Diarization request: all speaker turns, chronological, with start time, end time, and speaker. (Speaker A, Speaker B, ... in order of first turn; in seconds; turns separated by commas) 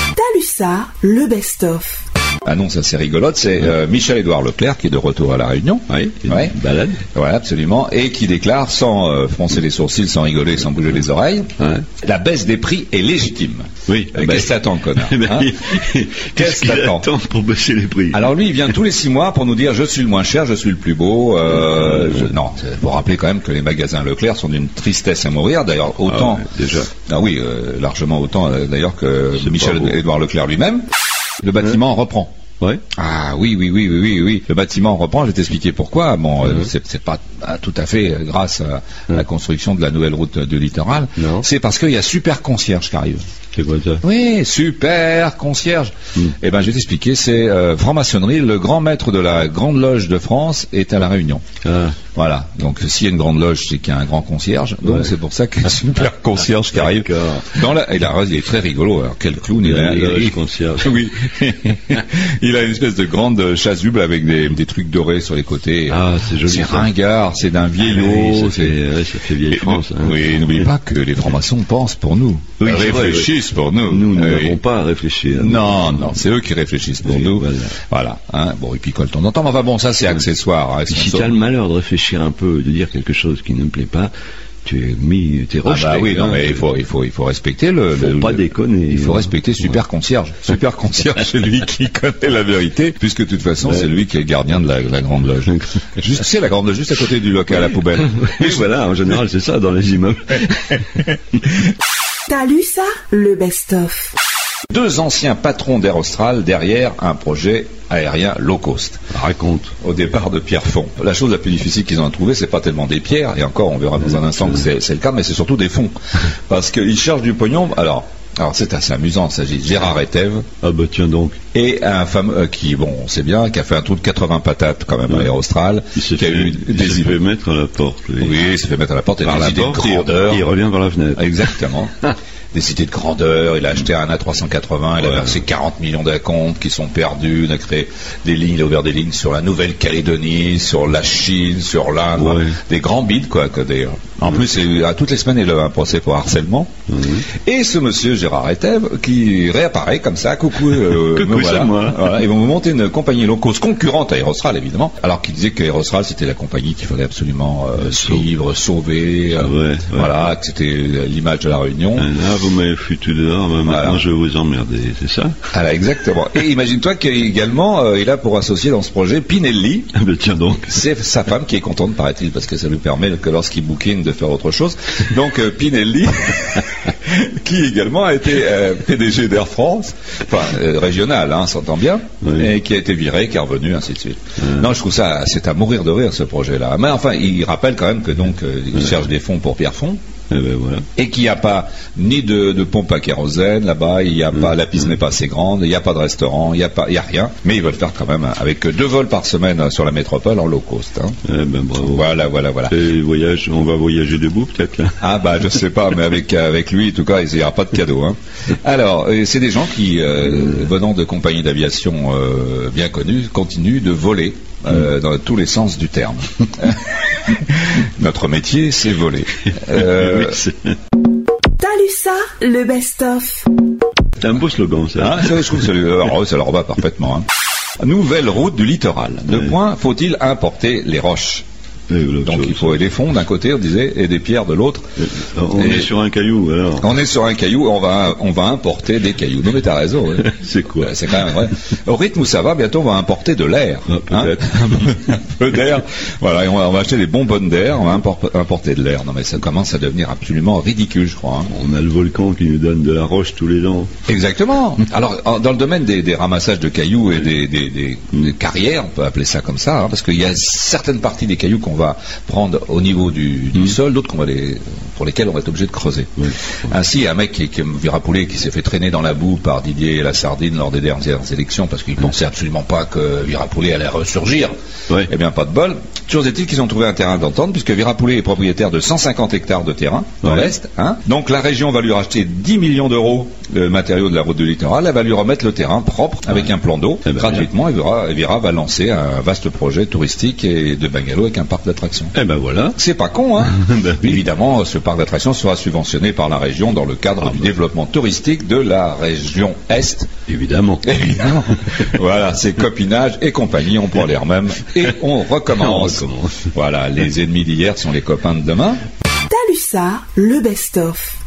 Speaker A: 0.1-2.0, Speaker B: 2.4-6.5, Speaker C: 5.9-7.0, Speaker B: 7.1-15.7, Speaker C: 11.6-11.8, Speaker C: 13.9-18.3, Speaker B: 16.4-17.1, Speaker B: 18.1-30.8, Speaker C: 21.7-22.3, Speaker C: 26.0-26.9, Speaker C: 29.4-29.9, Speaker B: 31.4-32.3, Speaker B: 32.9-43.2, Speaker C: 41.2-41.5, Speaker C: 43.5-44.0, Speaker B: 44.0-51.4, Speaker C: 51.6-52.0, Speaker B: 52.1-68.8, Speaker C: 54.8-55.1, Speaker C: 56.5-57.6, Speaker C: 59.6-61.0, Speaker C: 65.9-66.9, Speaker C: 67.8-70.3, Speaker B: 69.5-74.6, Speaker C: 72.6-73.3, Speaker C: 73.9-76.2, Speaker B: 75.3-81.3, Speaker C: 77.0-77.7, Speaker C: 80.9-84.1, Speaker C: 84.6-86.6, Speaker B: 85.6-98.6, Speaker C: 87.9-89.3, Speaker C: 93.6-93.9, Speaker C: 97.9-101.4, Speaker A: 102.3-104.1, Speaker B: 104.7-109.0, Speaker C: 109.1-109.7, Speaker B: 109.8-115.9, Speaker C: 114.1-114.6, Speaker B: 116.5-120.5, Speaker C: 120.6-121.4, Speaker B: 121.5-127.2, Speaker C: 125.9-128.4, Speaker B: 128.2-130.4, Speaker C: 129.2-131.5, Speaker B: 131.2-146.7, Speaker C: 142.2-142.6, Speaker C: 146.9-147.2, Speaker B: 147.3-162.1, Speaker C: 150.9-152.2, Speaker C: 157.9-158.2, Speaker C: 159.3-160.2, Speaker C: 161.9-165.3, Speaker B: 163.6-164.0, Speaker B: 165.5-169.9, Speaker C: 169.9-170.8, Speaker B: 170.7-190.0, Speaker C: 182.2-182.5, Speaker C: 184.4-184.7, Speaker C: 190.3-190.9, Speaker B: 190.9-201.2, Speaker C: 201.2-202.0, Speaker B: 201.8-202.7, Speaker C: 202.7-205.0, Speaker B: 205.0-220.4, Speaker C: 219.5-220.8, Speaker A: 221.6-223.5, Speaker C: 224.2-225.7, Speaker B: 225.0-227.2, Speaker B: 227.8-231.4, Speaker C: 231.9-232.8, Speaker B: 232.2-234.8, Speaker C: 235.0-236.9, Speaker B: 235.6-235.9, Speaker B: 236.8-251.5, Speaker C: 240.2-241.4, Speaker C: 243.9-244.9, Speaker C: 251.5-253.9, Speaker B: 254.1-292.1, Speaker C: 280.2-280.5, Speaker C: 287.0-287.5, Speaker C: 292.1-292.8, Speaker B: 292.7-300.1, Speaker C: 293.4-294.2, Speaker C: 300.3-300.8, Speaker B: 300.8-308.8, Speaker C: 305.4-306.5, Speaker A: 309.3-311.1